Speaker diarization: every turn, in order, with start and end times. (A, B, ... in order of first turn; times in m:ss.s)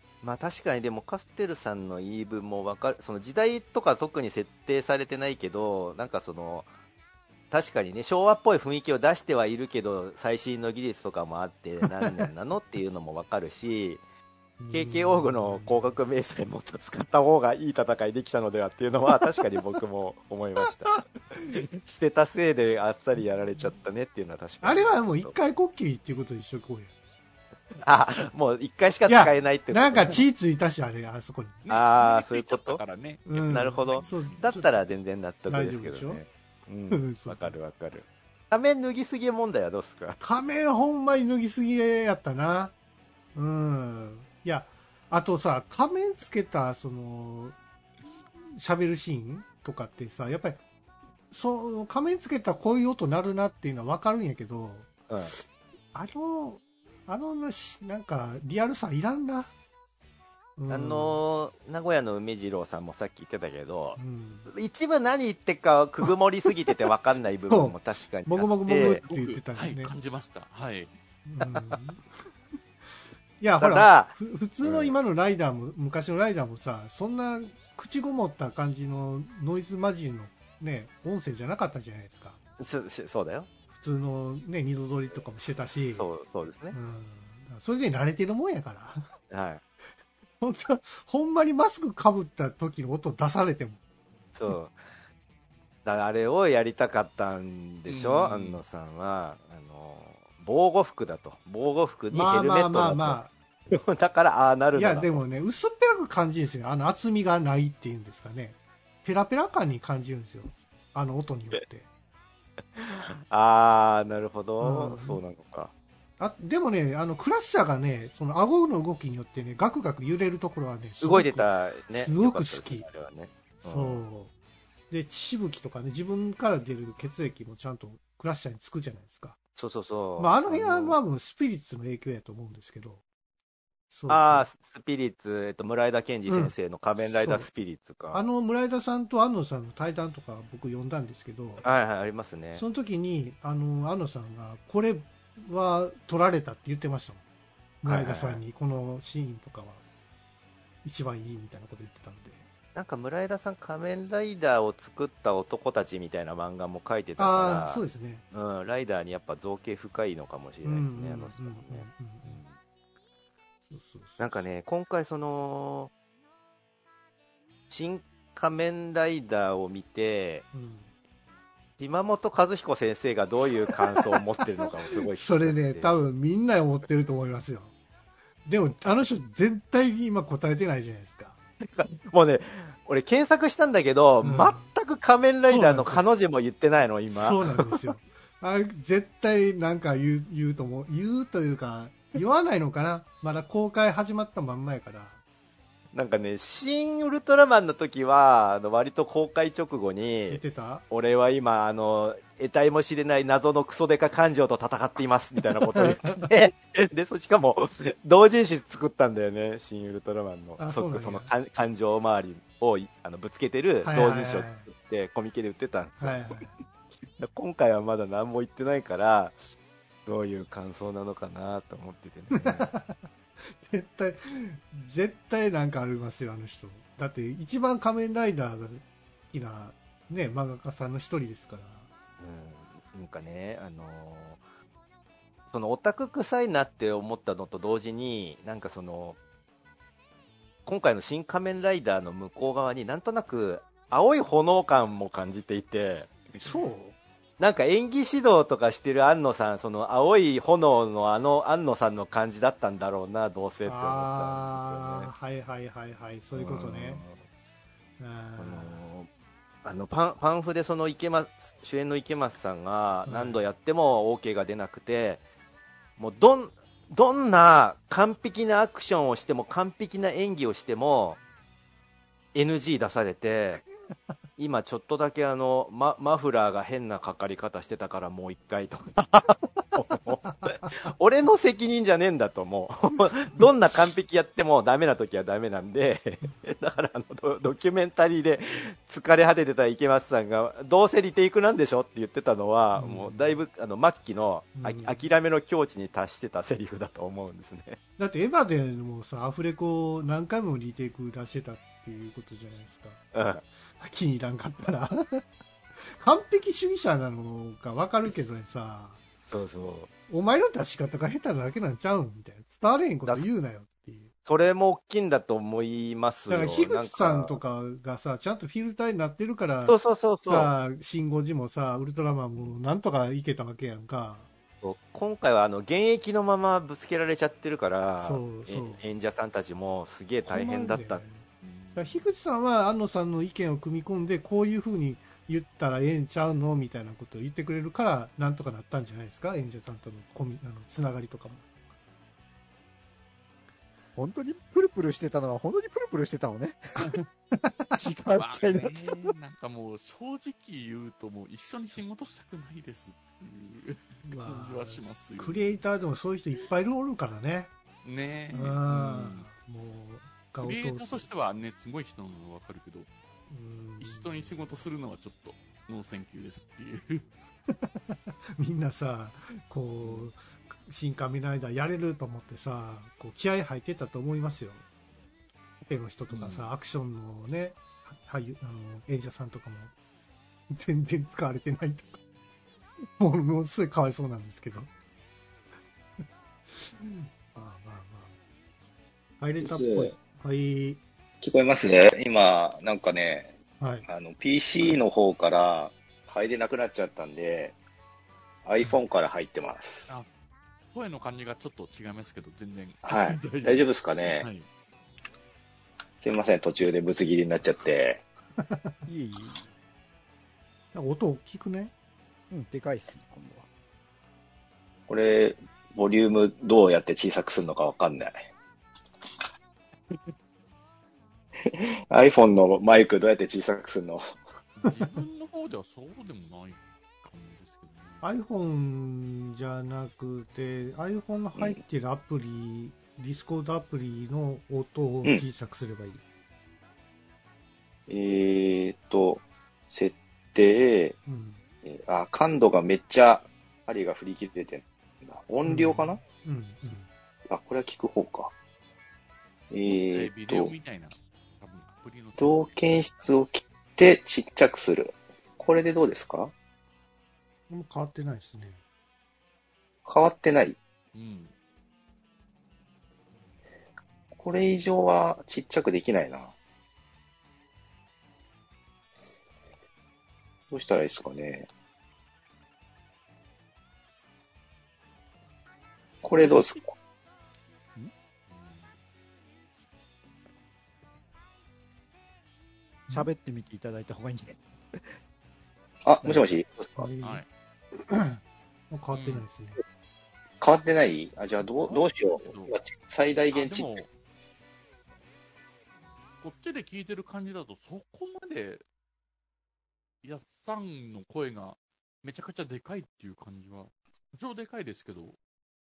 0:00.2-0:06.7 A
0:07.5-0:14.0 A
0:12.0-0:12.2 B
0:14.6-0:16.0 B
0:14.7-0:21.1 A
0:20.6-0:21.0 B
0:21.8-0:25.3 A
0:23.2-0:23.6 B
0:24.6-0:26.9 B
0:27.8-0:30.2 A
0:29.0-0:31.6 B
0:31.6-0:34.5 C
0:31.7-0:40.2 A
0:33.3-0:34.9 B
0:35.5-0:36.2 B
0:36.9-0:37.6 B
0:40.2-0:42.7 B
0:43.3-0:47.6 B
0:48.6-0:50.6 B
0:51.3-0:55.4 B
0:55.9-0:59.5 B
1:00.6-1:01.2 B
1:00.7-1:09.0 A
1:04.0-1:04.5 B
1:07.5-1:09.9 B
1:09.0-1:11.0 C
1:11.2-1:12.1 B
1:13.4-1:22.4 B
1:13.6-1:14.9 A
1:22.6-1:23.5 A
1:23.7-1:26.1 B
1:25.9-1:26.8 A
1:26.7-1:29.1 B
1:29.3-1:29.6 A
1:30.4-1:33.8 B
1:34.3-1:34.8 A
1:35.8-1:45.2 A
1:37.9-1:38.6 C
1:42.1-1:43.3 B
1:44.7-1:51.9 B
1:52.8-1:55.7 A
1:54.6-1:55.2 B
1:56.2-2:02.8 B
2:01.0-2:04.0 A
2:03.6-2:04.3 B
2:04.9-2:09.4 B
2:09.5-2:11.0 A
2:10.2-2:13.0 B
2:13.9-2:14.5 B
2:14.1-2:18.2 A
2:16.2-2:17.5 B
2:18.1-2:21.6 B
2:21.6-2:22.6 A
2:22.5-2:27.2 B
2:27.8-2:29.8 B
2:27.8-2:28.4 A
2:30.8-2:32.4 B
2:32.7-2:42.6 A
2:37.2-2:38.2 B
2:40.6-2:42.4 B
2:43.6-2:44.5 B
2:44.2-2:45.9 A
2:47.7-2:50.4 A
2:50.5-2:50.9 B
2:51.8-2:56.0 A
2:55.1-2:57.7 B
2:58.4-3:01.4 B
3:01.6-3:07.8 A
3:04.2-3:04.6 B
3:05.4-3:06.0 B
3:07.1-3:15.2 B
3:15.9-3:36.2 A
3:20.3-3:20.8 B
3:25.8-3:26.3 B
3:30.6-3:31.3 B
3:33.8-3:34.7 B
3:36.0-3:36.5 B
3:37.1-3:39.4 A
3:40.0-3:42.7 A
3:42.3-3:51.9 B
3:52.2-3:54.4 A
3:55.5-3:59.2 A
4:00.6-4:06.2 A
4:06.4-4:07.0 B
4:07.4-4:15.1 A
4:13.6-4:17.0 B
4:16.3-4:17.2 A
4:18.0-4:18.9 B
4:18.4-4:19.1 A
4:19.6-4:25.2 A
4:23.0-4:23.4 B
4:26.0-4:31.2 A
4:32.3-4:33.6 A
4:34.4-4:57.8 A
4:40.2-4:40.7 B
4:52.7-4:53.4 B
4:54.6-4:55.0 B
4:58.0-5:03.0 B
5:03.1-5:03.4 A
5:03.8-5:05.2 B
5:06.0-5:09.0 B
5:09.3-5:09.9 A
5:10.1-5:14.1 B
5:14.2-5:17.4 A
5:16.3-5:24.3 B
5:19.6-5:20.5 A
5:24.6-5:31.0 A
5:28.0-5:28.8 B
5:30.2-5:41.4 B
5:31.4-5:32.0 C
5:44.0-5:47.0 D
5:47.3-5:47.8 B
5:47.8-5:49.1 D
5:48.1-5:55.6 C
5:54.0-5:57.5 B
5:57.8-5:59.3 C
5:58.3-6:01.0 B
6:00.4-6:02.9 C
6:03.3-6:04.5 B
6:03.8-6:07.1 C
6:07.6-6:14.6 B
6:09.8-6:10.1 C
6:15.6-6:19.7 B
6:16.1-6:16.5 C
6:20.5-6:22.0 B
6:23.0-6:24.7 B
6:26.5-6:28.1 B
6:29.2-6:30.8 B
6:29.4-6:29.9 E
6:31.2-6:33.4 E
6:33.6-6:33.8 B
6:33.9-6:37.6 E
6:38.4-6:39.8 E
6:40.7-6:44.5 C
6:42.8-6:44.2 E
6:46.0-6:48.0 E
6:48.4-6:48.7 B
6:48.8-6:49.4 D
6:50.7-6:51.7 B
6:52.3-6:53.5 D
6:54.9-6:58.3 E
7:01.5-7:04.2 E
7:04.6-7:08.0 C
7:08.0-7:16.0 B
7:17.9-7:21.0 E
7:21.0-7:21.4 B
7:21.6-7:26.0 E
7:25.4-7:26.9 B
7:27.3-7:28.3 E
7:29.5-7:30.5 E
7:29.7-7:32.8 C
7:32.2-7:36.3 E
7:37.5-7:38.6 B
7:39.8-7:40.6 E
7:40.9-7:41.3 C
7:44.1-7:46.3 E
7:50.5-7:51.5 E
7:56.0-7:56.7 E
7:58.3-7:58.8 C
8:02.9-8:05.0 D
8:05.8-8:06.9 E
8:06.0-8:06.3 D
8:06.7-8:07.2 B
8:07.0-8:07.3 C
8:07.8-8:09.6 B
8:08.9-8:09.2 C
8:10.4-8:13.8 E
8:11.6-8:12.6 C
8:13.3-8:13.9 C
8:16.2-8:18.6 C
8:20.0-8:25.2 C